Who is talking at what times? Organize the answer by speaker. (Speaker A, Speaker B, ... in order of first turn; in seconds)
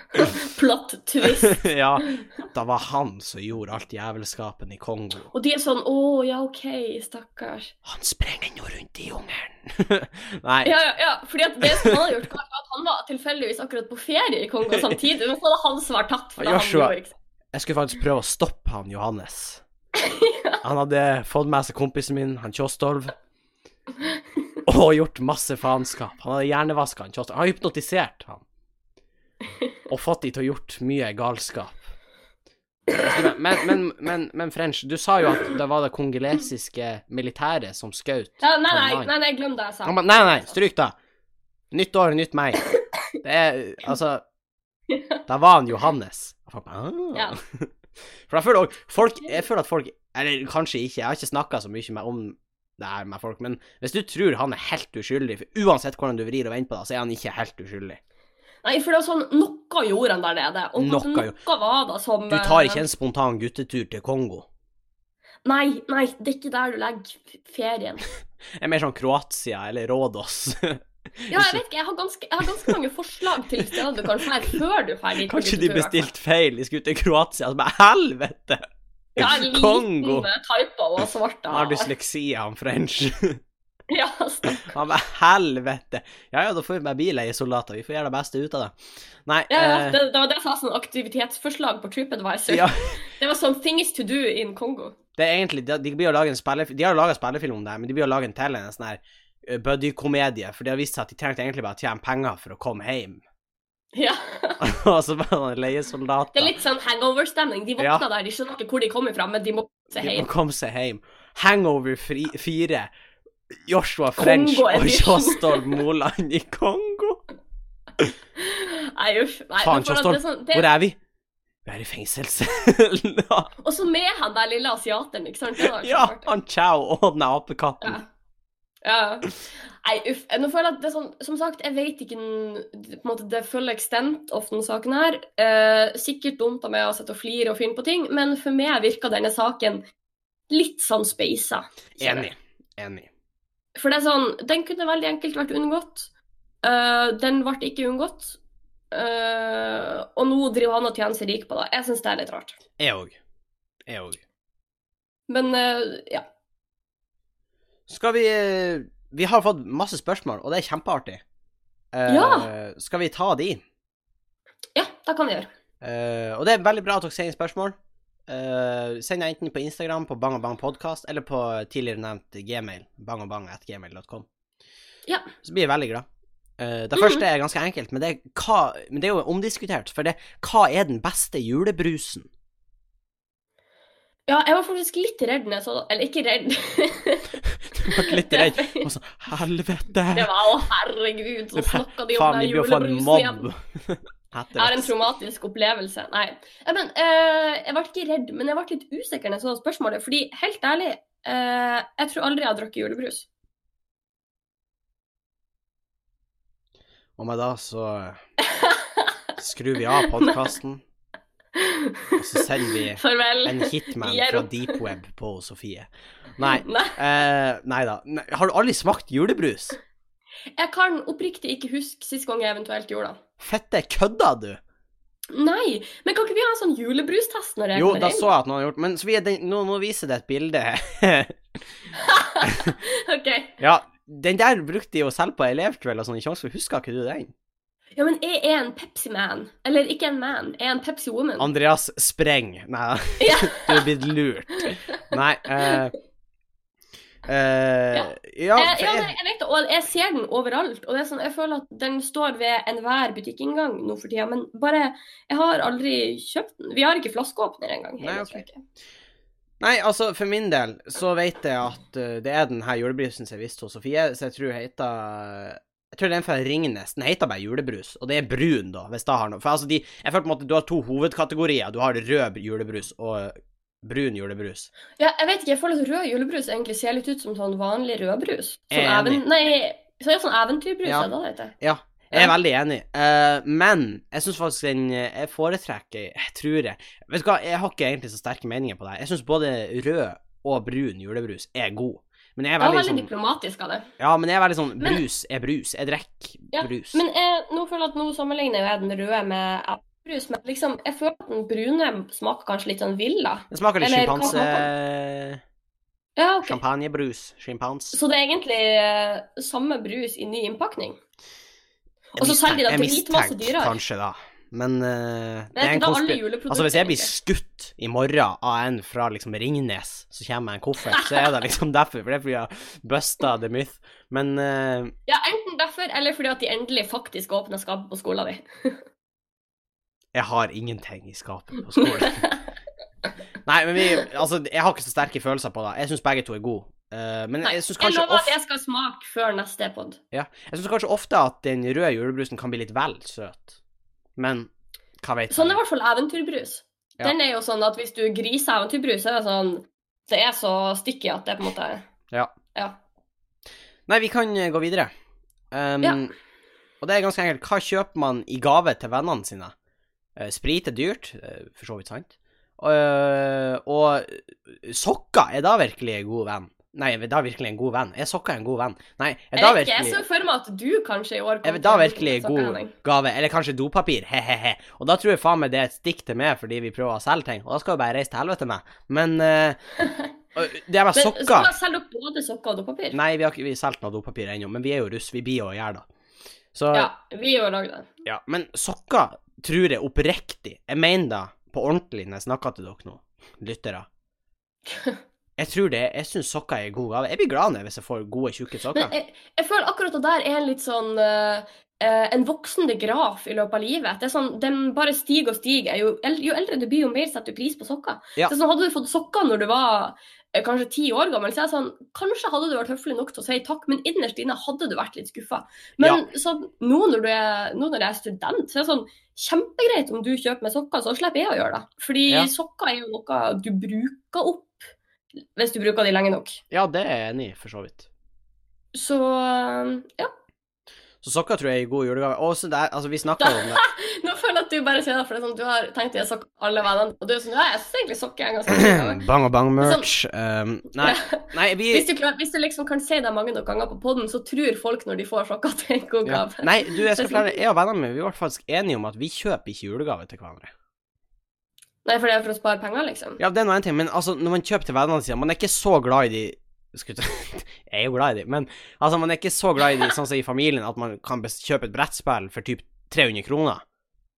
Speaker A: 0.1-2.2, 5.3-7.8, 10.6-17.1, 20.0-20.6, 38.4-40.6, 44.9-45.2, 58.6-62.9, 65.5-68.1, 71.3-76.1, 79.2-81.9, 83.9-84.7, 89.5-95.0, 104.0-104.6, 106.3-110.3, 114.2-115.8, 118.4-120.7, 123.6-126.3, 128.8-139.8, 140.5-142.3, 143.8-146.1, 146.6-148.4, 148.9-152.6, 155.3-156.2, 162.1-162.5, 164.8-165.5, 175.1-175.3, 177.0-177.2, 184.3-188.9, 190.1-193.5, 194.6-203.3, 208.4-209.2, 210.0-210.5, 211.6-214.8, 216.4-217.0, 220.6-223.2, 225.3-228.3, 231.9-233.6, 238.0-241.5, 243.2-243.9, 244.6-245.0, 247.9-258.6, 275.0-281.6, 292.6-293.9, 296.5-304.7, 306.2-306.6, 307.9-311.0, 312.1-313.8, 315.6-317.1, 320.9-321.2, 325.1-328.8, 331.8-332.4, 337.4-340.0, 345.3-351.9, 355.8-356.1, 369.4-372.7, 379.8-380.1, 380.9-383.0, 386.7-387.9, 394.7-395.0, 398.7-424.7, 425.4-426.4, 428.7-430.1, 433.2-439.1, 439.6-439.9, 440.8-447.4, 451.9-453.2
Speaker B: 1.2-5.3, 7.8-10.8, 11.6-12.0, 16.4-16.9, 17.5-19.6, 20.6-23.1, 24.6-28.4, 29.9-31.8, 33.0-39.1, 39.9-41.0, 41.7-42.6, 43.2-44.2, 45.3-47.7, 48.3-58.0, 60.8-61.4, 62.3-64.5, 68.6-71.6, 73.6-74.2, 75.2-78.6, 79.2-80.3, 81.5-83.4, 84.6-88.8, 89.3-90.0, 92.5-93.0, 95.2-103.2, 104.6-106.6, 107.8-108.0, 110.0-112.9, 113.7-117.2, 119.6-121.0, 121.7-123.5, 125.6-128.0, 142.0-143.1, 152.8-153.2, 153.9-154.2, 157.9-161.2, 161.9-163.6, 165.8-167.8, 168.3-174.3, 175.4-176.1, 176.6-182.3, 187.5-190.3, 191.6-194.9, 207.2-208.2, 209.4-210.8, 212.2-219.8, 223.4-224.6, 227.8-231.4, 232.4-232.7, 233.6-237.3, 241.4-245.9, 247.2-249.1, 258.0-258.4, 259.6-274.7, 278.7-279.2, 281.6-293.1, 294.0-297.0, 303.5-305.4, 306.4-308.0, 312.2-324.9, 330.1-332.3, 333.4-338.4, 340.1-343.6, 344.2-344.5, 345.0-345.6, 353.9-354.9, 355.5-356.1, 356.8-359.5, 360.2-370.0, 371.4-379.6, 380.4-381.5, 382.9-385.9, 386.6-386.9, 388.1-393.9, 395.4-398.9, 426.5-427.9, 431.0-433.6, 438.5-441.9, 446.1-450.5, 453.2-463.6